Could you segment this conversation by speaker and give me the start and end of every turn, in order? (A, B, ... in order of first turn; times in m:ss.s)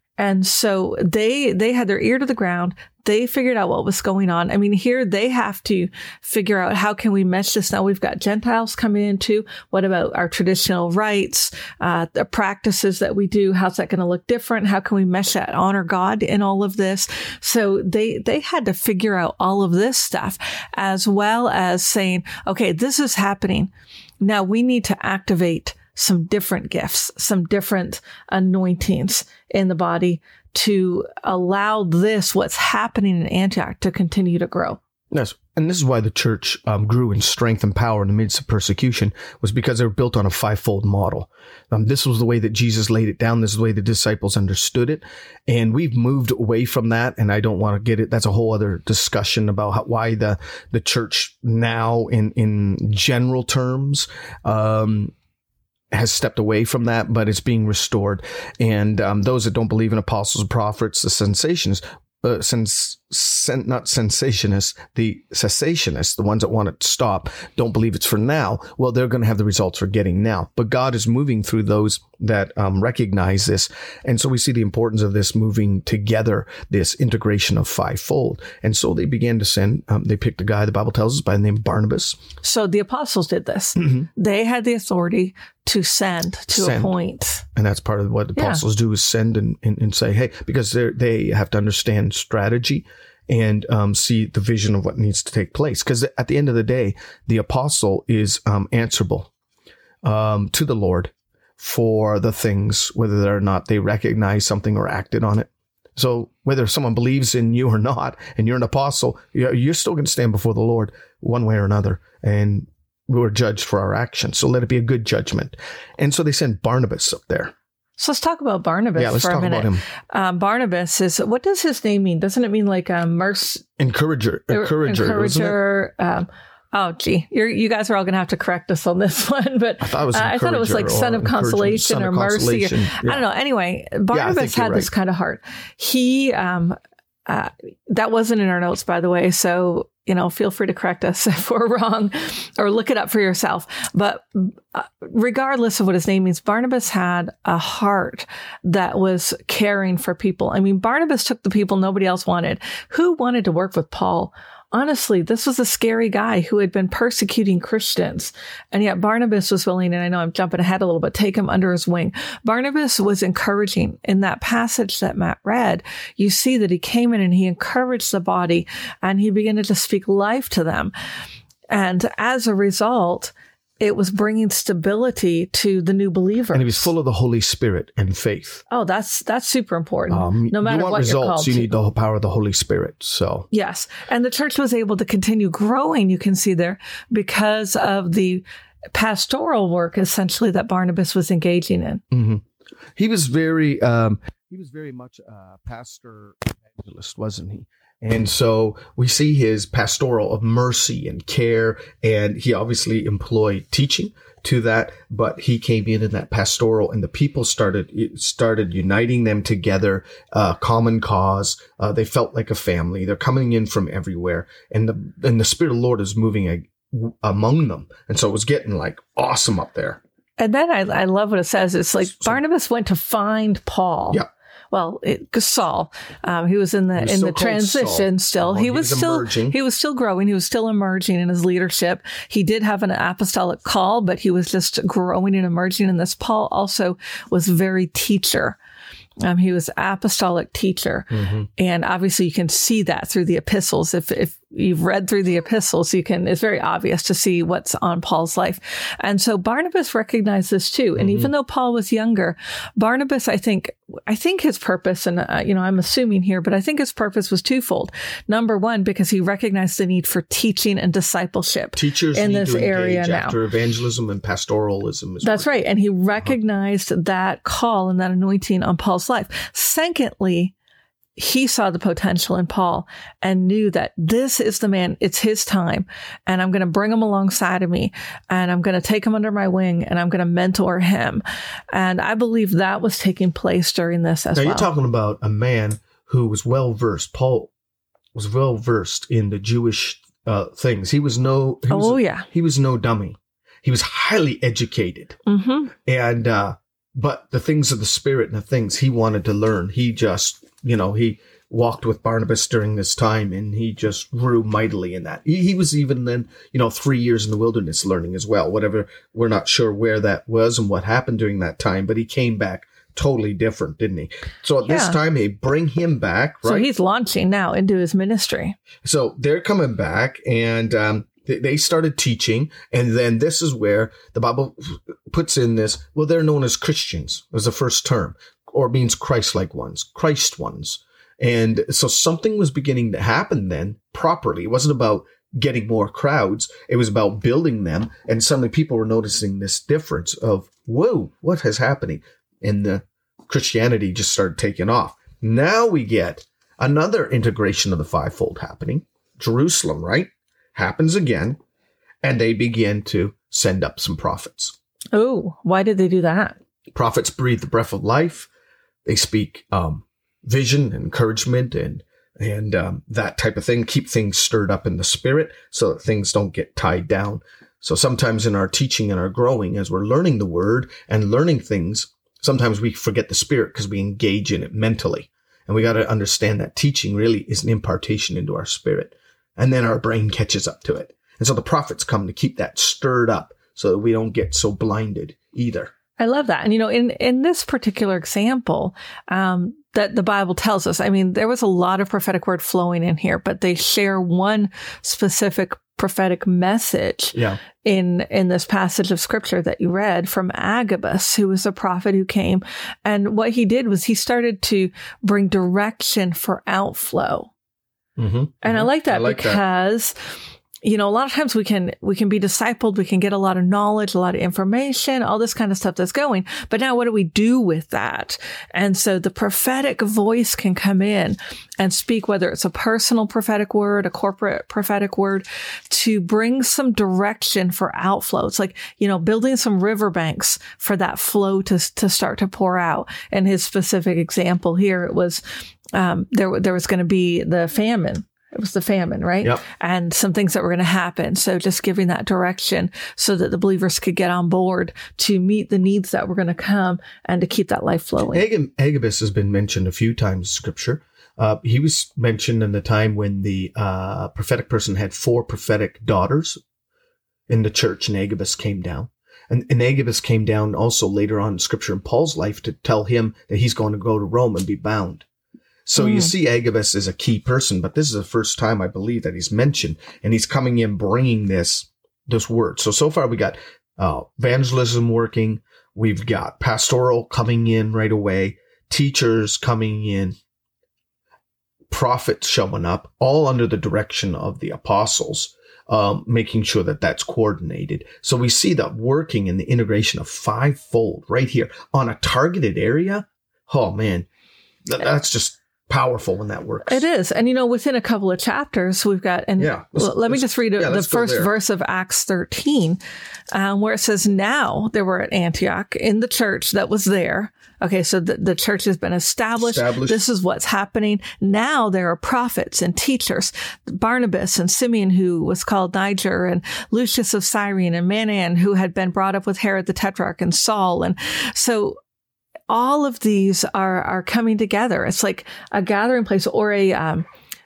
0:00.2-0:34.8 A
0:35.1-0:55.1 B
0:55.9-1:22.2 B
1:22.4-1:27.4 A
1:26.5-1:26.9 B
1:27.5-1:39.3 B
1:28.4-1:28.6 A
1:40.0-1:57.5 B
1:58.0-2:03.7 A
1:59.0-1:59.8 B
2:03.8-2:05.6 B
2:04.5-2:50.9 A
2:09.8-2:13.2 B
2:14.1-2:14.9 B
2:51.7-2:56.9 A
2:56.5-2:58.6 B
2:58.7-3:01.7 A
3:00.1-3:03.5 B
3:03.5-3:12.0 A
3:12.1-3:12.4 B
3:13.0-3:40.0 B
3:40.4-3:58.6 A
3:47.0-3:49.5 B
3:59.2-4:23.4 A
4:01.1-4:01.5 B
4:11.0-4:11.3 B
4:21.8-4:25.6 B
4:25.2-4:30.5 A
4:31.2-4:44.7 A
4:44.4-4:47.5 B
4:48.1-4:55.2 B
4:51.7-4:52.2 A
4:55.2-4:55.7 A
4:55.8-5:16.7 B
5:14.7-5:15.0 A
5:16.4-5:18.6 A
5:18.8-5:51.4 B
5:52.0-5:54.6 B
5:54.9-5:56.4 A
5:56.7-5:58.3 B
5:58.8-6:25.7 B
6:26.0-6:47.3 A
6:37.1-6:37.4 B
6:48.0-6:49.4 B
6:48.4-6:49.9 A
6:50.6-7:15.2 A
7:15.7-7:28.2 A
7:28.1-7:36.4 B
7:37.3-7:45.0 B
7:45.6-8:00.2 B
7:45.8-7:46.1 A
8:01.7-8:14.1 B
8:14.6-8:16.8 B
8:16.6-8:22.8 A
8:19.4-8:21.3 B
8:23.3-8:41.8 A
8:29.4-8:30.0 B
8:42.5-8:47.0 A